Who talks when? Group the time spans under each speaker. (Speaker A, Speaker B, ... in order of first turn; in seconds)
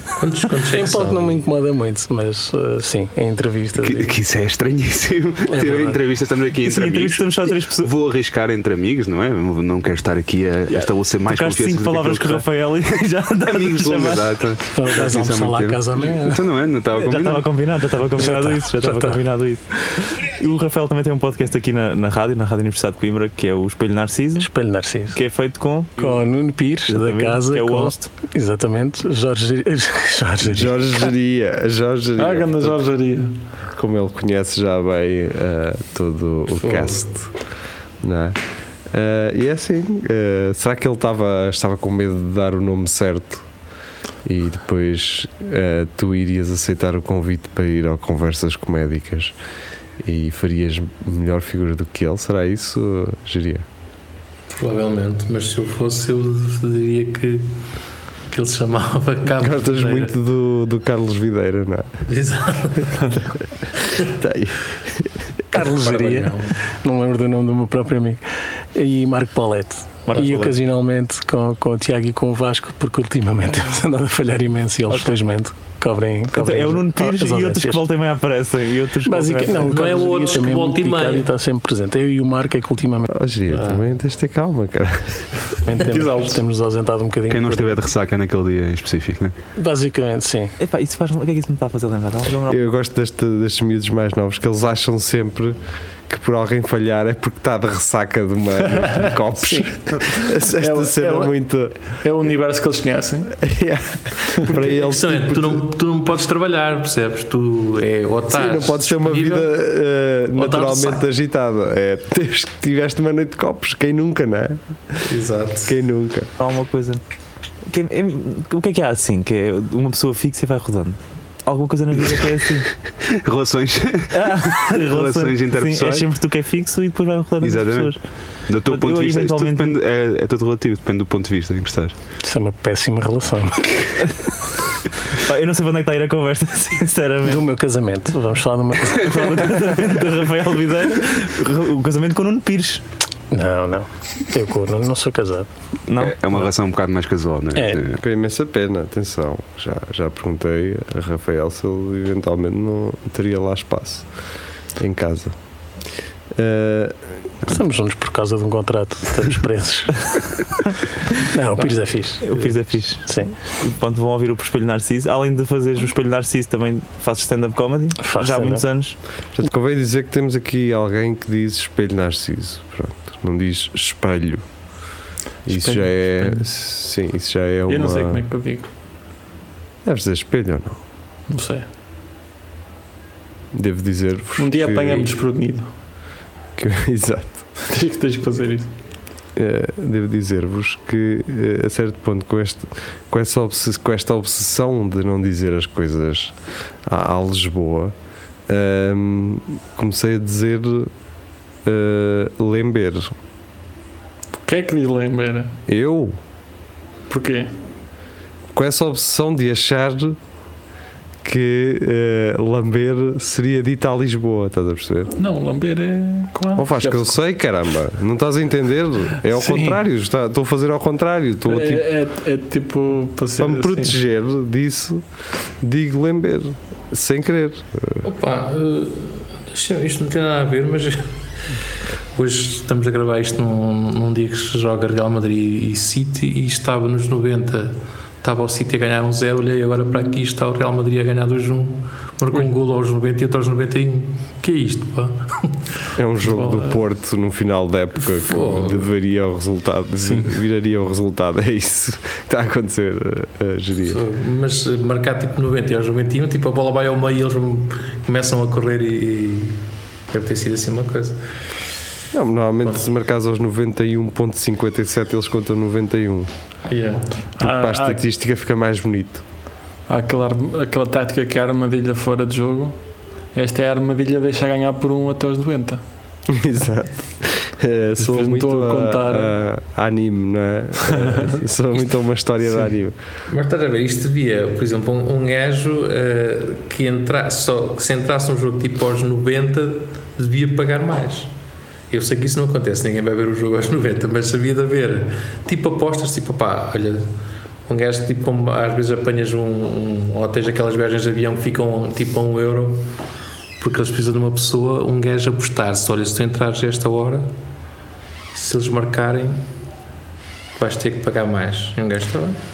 Speaker A: 0.2-1.4, 36.6-37.1, 54.5-57.6, 58.3-60.1, 62.1-63.3, 65.5-66.5, 79.6-81.3, 83.5-83.9, 104.5-109.5, 110.3-111.0, 115.0-115.8, 228.0-231.1, 232.1-245.7, 248.1-248.9, 253.9-261.3, 283.3-291.3, 291.9-297.1, 297.7-302.9, 303.6-307.3, 308.3-309.4, 310.6-312.4
Speaker B: 0.7-4.1, 5.5-6.0, 14.7-16.4, 18.2-19.2, 24.4-25.2, 26.0-31.0, 65.5-68.2, 68.7-77.8, 79.0-83.1, 85.7-87.7, 89.6-90.5, 132.2-133.7, 137.2-139.8, 143.3-145.5, 147.5-147.8, 157.4-160.2, 161.2-163.3, 168.0-168.7
Speaker C: 3.8-12.5, 13.5-17.5, 87.3-89.3, 123.1-126.1, 127.4-127.9, 128.5-131.9, 146.0-148.0
Speaker D: 6.6-7.9, 10.7-14.4, 16.9-24.5, 25.1-26.2, 26.9-28.1, 70.0-70.5, 76.3-79.9, 90.6-92.6, 116.4-117.0, 117.7-122.7, 124.1-128.0, 128.7-129.7, 135.1-137.4, 138.9-142.8, 145.9-146.2, 162.2-168.9
Speaker E: 30.4-32.8, 33.7-37.3, 38.0-38.4, 38.9-43.5, 44.2-49.3, 50.0-53.6, 59.3-61.9, 64.0-65.1, 83.1-85.3, 92.5-95.6, 96.1-101.8, 103.4-105.6, 108.3-115.0, 115.6-116.3, 148.0-154.1, 154.8-155.3, 156.3-156.9, 169.3-174.4, 175.5-178.2, 179.8-180.8, 183.5-185.1, 186.6-187.4, 189.3-197.9, 198.5-200.9, 201.6-203.1, 205.7-206.2, 208.5-210.2, 211.2-215.1, 216.6-221.8, 223.4-225.0, 225.6-228.0, 245.9-254.0, 262.1-266.3, 267.4-269.2, 276.3-283.0
Speaker F: 32.2-33.3, 85.8-86.4, 99.5-101.3, 102.0-103.3, 175.5-176.4, 177.7-178.7, 181.3-181.7, 184.4-185.7, 187.6-188.7, 204.4-205.6, 207.1-207.5, 215.2-217.1, 219.3-219.8, 221.5-223.9, 246.2-246.7, 250.0-250.3, 266.7-268.0, 269.9-272.8, 273.3-275.8, 278.0-279.3, 280.9-281.4